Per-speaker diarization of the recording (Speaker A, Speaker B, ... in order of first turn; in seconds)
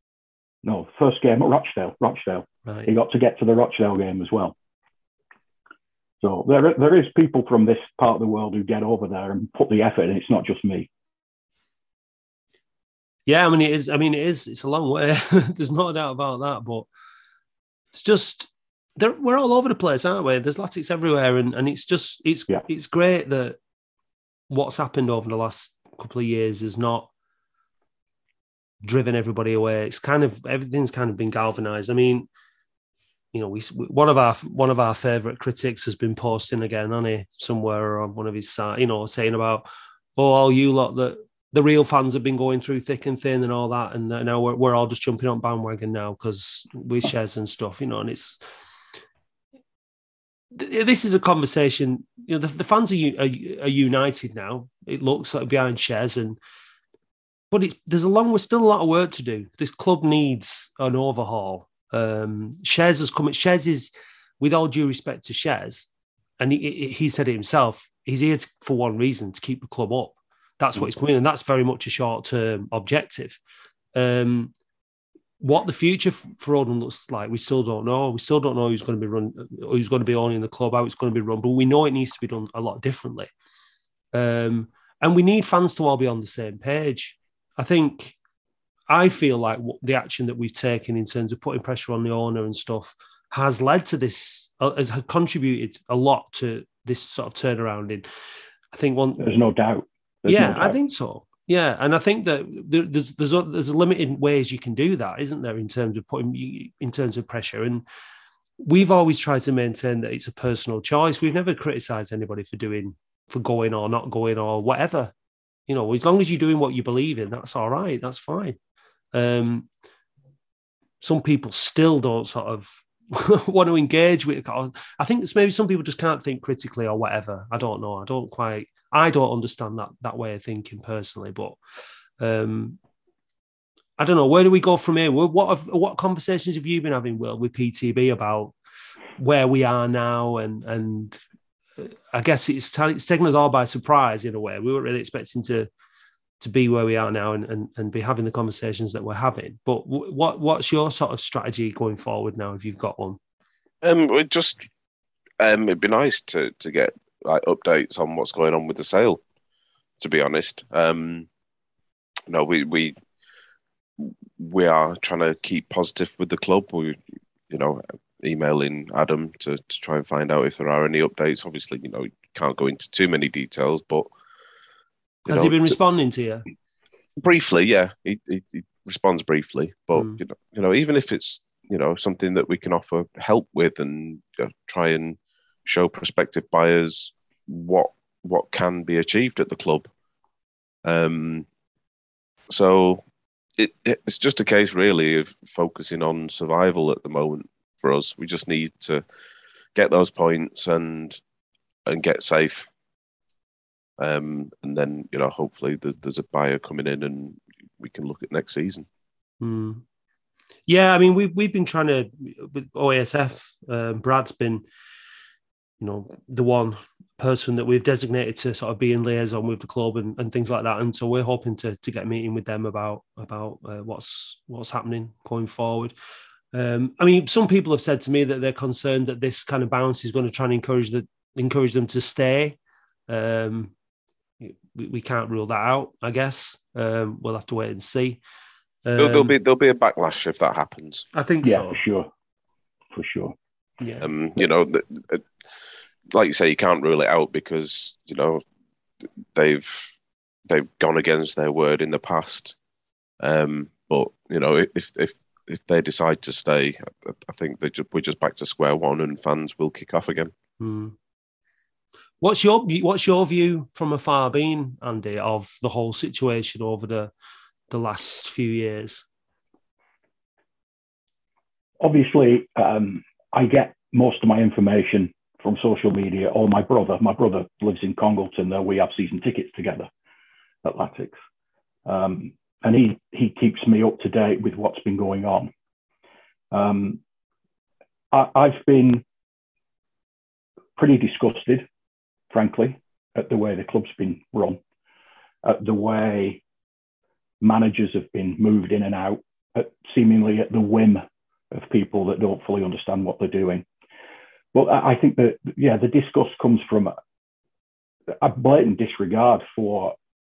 Speaker A: 0.6-4.5, 6.2-10.9, 99.2-100.8, 241.4-242.1, 242.9-243.3, 271.8-279.9, 280.6-281.1, 281.9-285.5, 286.5-287.0, 288.1-289.0, 290.8-291.7, 292.3-294.6, 295.4-296.4, 297.4-303.6, 304.5-306.9, 308.1-309.9
Speaker B: 13.3-16.9, 17.9-23.6, 24.5-27.1, 28.8-32.3, 33.3-48.4, 50.5-56.4, 57.5-73.4, 73.9-74.5, 75.4-83.3, 84.1-88.2, 88.9-98.0, 98.7-99.3, 100.3-107.8, 108.6-115.1, 115.7-118.6, 119.1-119.7, 121.0-131.6, 132.2-132.8, 134.0-138.5, 139.2-141.2, 141.8-145.7, 146.4-153.2, 175.2-176.4, 209.4-209.8, 210.7-214.6, 215.8-225.9, 226.5-232.6, 233.1-233.7, 234.4-238.2, 238.8-239.3, 241.1-241.8, 260.6-260.9, 262.2-267.1, 267.7-269.1
Speaker C: 153.8-154.7, 155.4-159.2, 160.0-161.3, 162.3-162.9, 164.0-167.0, 167.5-174.1, 175.3-175.6, 177.2-189.9, 190.8-191.4, 192.5-193.0, 193.6-199.0, 199.7-201.2, 201.9-202.7, 204.0-208.8, 239.0-241.1, 244.0-245.2, 246.1-248.4, 249.3-249.9, 250.5-252.6, 253.2-260.3